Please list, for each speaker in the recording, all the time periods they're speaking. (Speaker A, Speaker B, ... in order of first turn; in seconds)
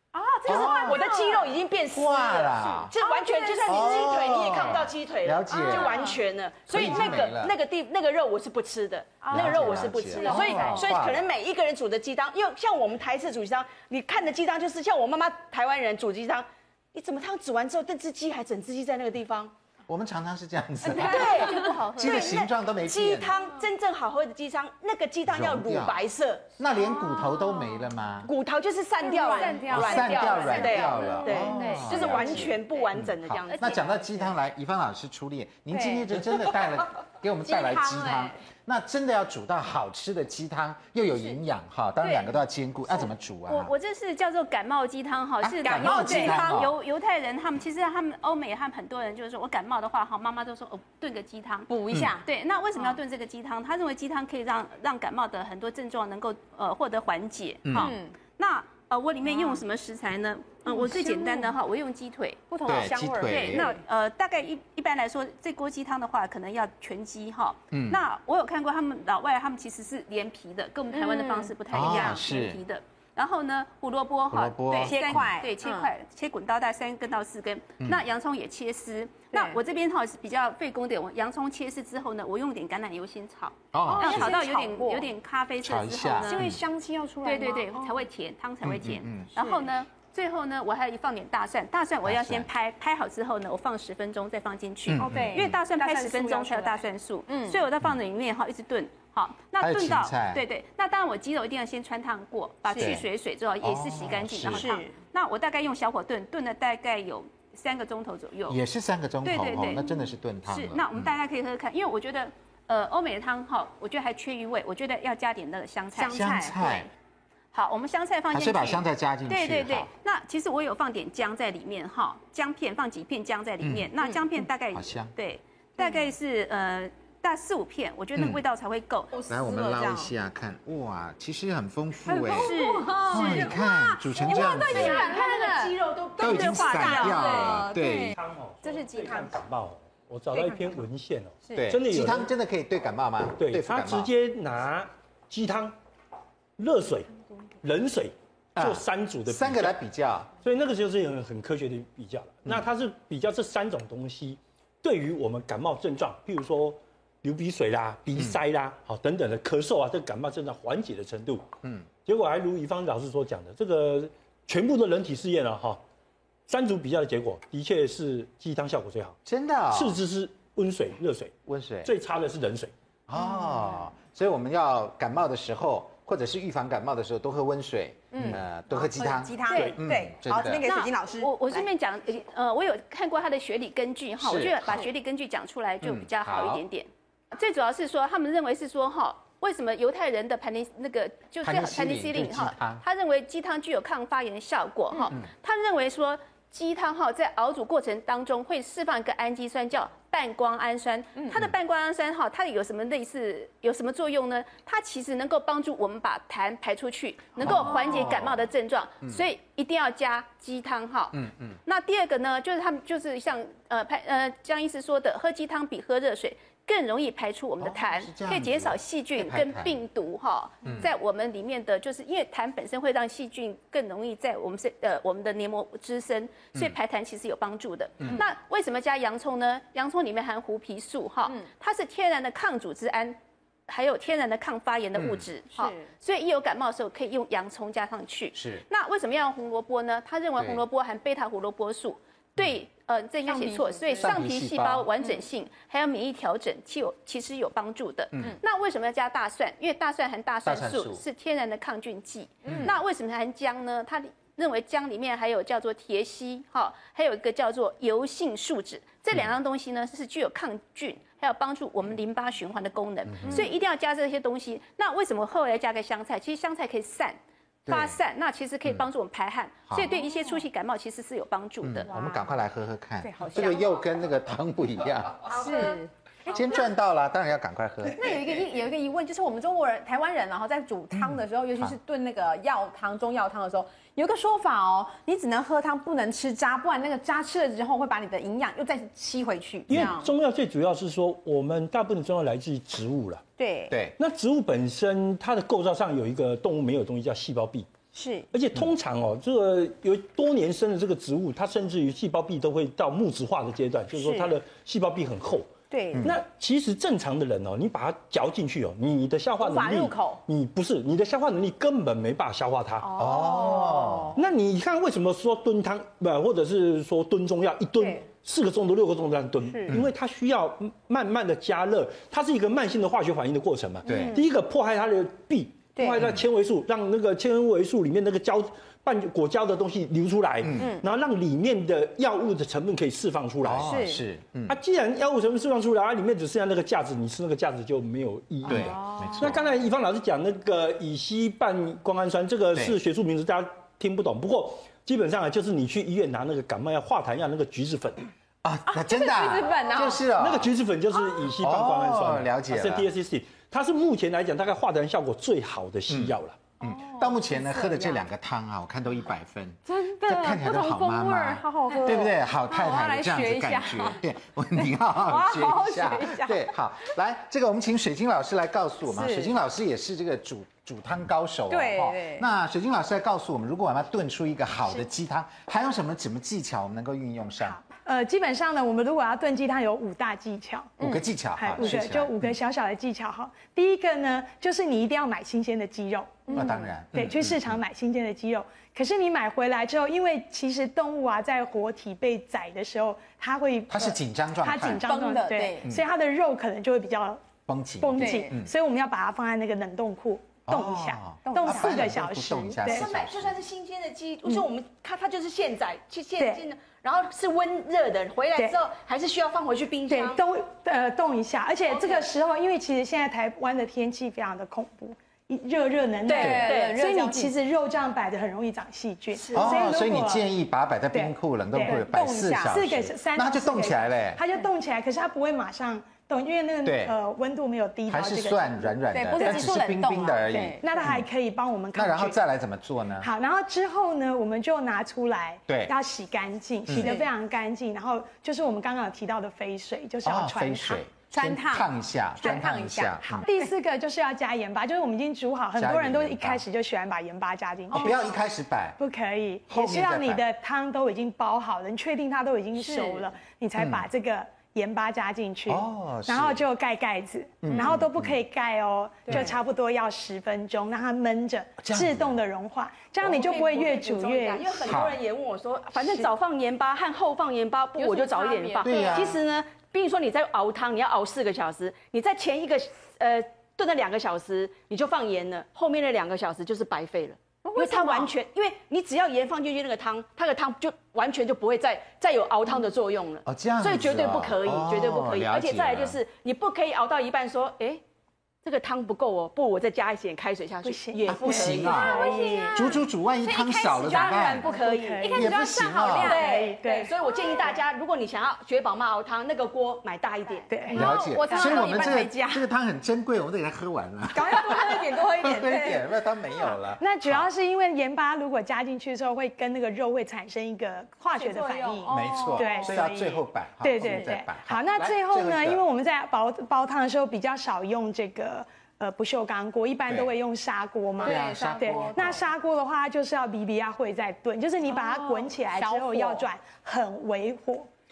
Speaker A: 0.1-1.5, 3.0-4.8, 5.5-6.2, 6.7-7.2, 9.2-10.8, 26.7-27.8, 29.0-32.2, 35.7-36.2, 37.5-38.3, 42.0-42.3, 45.7-46.6, 51.7-52.2, 57.7-58.1, 59.3-59.6, 60.6-61.5, 62.5-63.8, 70.9-72.2, 74.8-75.9, 79.3-79.6, 83.8-85.1, 86.2-88.0, 89.4-89.7, 95.0-97.6, 102.7-102.9, 104.5-104.9, 116.0-116.7, 125.8-126.1, 129.1-130.1, 132.1-139.4, 140.3-140.8, 173.2-173.6, 178.1-181.7, 235.5-235.9, 243.2-244.1, 252.4-252.7, 271.9-272.3, 273.0-273.7, 275.3-276.6, 277.9-290.1, 293.4-293.8, 297.9-298.3, 303.9-304.3, 305.7-306.1, 309.4-310.2, 312.8-314.2, 319.4-319.8, 323.9-324.3, 325.8-326.1, 330.6-330.8, 333.6-334.0, 338.4-339.3, 348.7-350.0, 356.6-358.0, 359.7-364.0, 365.1-366.4, 368.9-369.3, 371.5-372.2, 380.8-381.1, 386.3-386.7, 394.5-395.6, 398.0-398.3, 401.3-401.8, 416.1-417.3, 421.6-422.6, 428.9-430.6, 436.8-437.1, 441.1-443.5, 452.6-453.1, 459.1-459.3, 467.8-469.0, 477.4-478.1, 491.7-496.5, 500.7-502.4, 504.1-505.8, 511.1-512.7, 513.8-514.1, 521.0-522.2, 524.7-526.2
Speaker B: 0.4-1.0, 1.9-2.9, 3.6-6.1, 6.7-7.5, 9.3-11.3, 19.9-23.3, 25.3-26.0, 26.6-28.3, 29.7-43.7, 45.4-46.7, 51.9-52.1, 57.6-57.9, 62.6-63.7, 67.7-68.0, 71.7-72.6, 74.3-75.3, 83.7-84.4, 85.6-86.6, 88.6-89.3, 92.0-92.5, 94.8-95.5, 99.6-100.4, 102.8-103.1, 103.6-104.7, 108.5-111.1, 116.0-116.9, 118.3-119.9, 123.6-123.9, 124.7-125.1, 128.2-128.4, 129.3-132.6, 133.1-135.1, 136.2-138.2, 141.6-144.1, 148.6-150.3, 169.2-170.0, 171.4-171.9, 173.1-180.7, 184.2-184.9, 185.8-186.6, 191.4-192.8, 207.4-208.4, 211.1-211.6, 217.6-219.8, 220.6-220.9, 234.9-235.3, 238.3-238.6, 244.0-244.9, 250.4-251.0, 252.4-252.7, 263.1-263.5, 267.7-268.0, 269.7-269.9, 271.6-275.7, 276.2-278.4, 280.9-281.8, 293.7-293.9, 312.9-314.2, 319.7-319.9, 323.8-324.2, 330.4-330.7, 333.4-334.6, 338.4-339.4, 348.4-350.5, 351.4-352.9, 355.9-377.6, 380.8-382.3, 386.3-387.6, 393.7-394.8, 397.5-398.5, 400.5-403.4, 419.3-424.2, 426.6-426.9, 427.9-431.1, 431.7-433.1, 435.5-435.7, 436.7-436.9, 440.0-443.2, 445.6-446.4, 447.7-448.8, 449.5-450.2, 453.6-453.9, 455.5-456.4, 457.4-458.2, 461.6-462.2, 464.6-465.0, 468.6-469.2, 483.2-486.0, 491.1-492.0, 492.5-494.5, 495.1-496.2, 500.7-507.3, 511.9-515.6, 521.0-522.2
Speaker C: 0.4-19.5, 20.9-26.5, 28.2-34.3, 134.2-137.2, 402.6-410.2, 411.6-412.1, 416.0-416.8, 419.1-419.7, 463.0-487.8, 488.4-492.4, 493.8-495.3, 496.0-500.8
Speaker D: 20.8-22.5, 29.3-32.5, 43.5-51.7, 52.2-86.5, 87.2-108.6, 109.2-116.8, 117.5-129.1, 132.3-133.5, 179.5-179.8, 180.6-267.2, 267.7-271.9
Speaker E: 137.3-142.3, 143.4-145.8, 146.6-147.1, 147.6-149.8, 150.4-161.4, 162.0-165.8, 166.5-169.2, 169.7-171.3, 171.8-172.7, 179.5-179.8, 289.7-293.2, 294.0-297.8, 298.3-313.1, 314.1-333.7, 334.5-348.1, 350.1-356.5
Speaker F: 377.4-380.8, 381.4-397.2, 397.8-402.9, 409.9-420.3, 420.9-429.5, 430.6-432.2, 433.0-440.8, 443.2-448.1, 448.8-464.7, 490.6-492.7, 494.4-495.4, 496.0-496.9, 500.5-501.9, 504.3-505.1, 506.5-527.7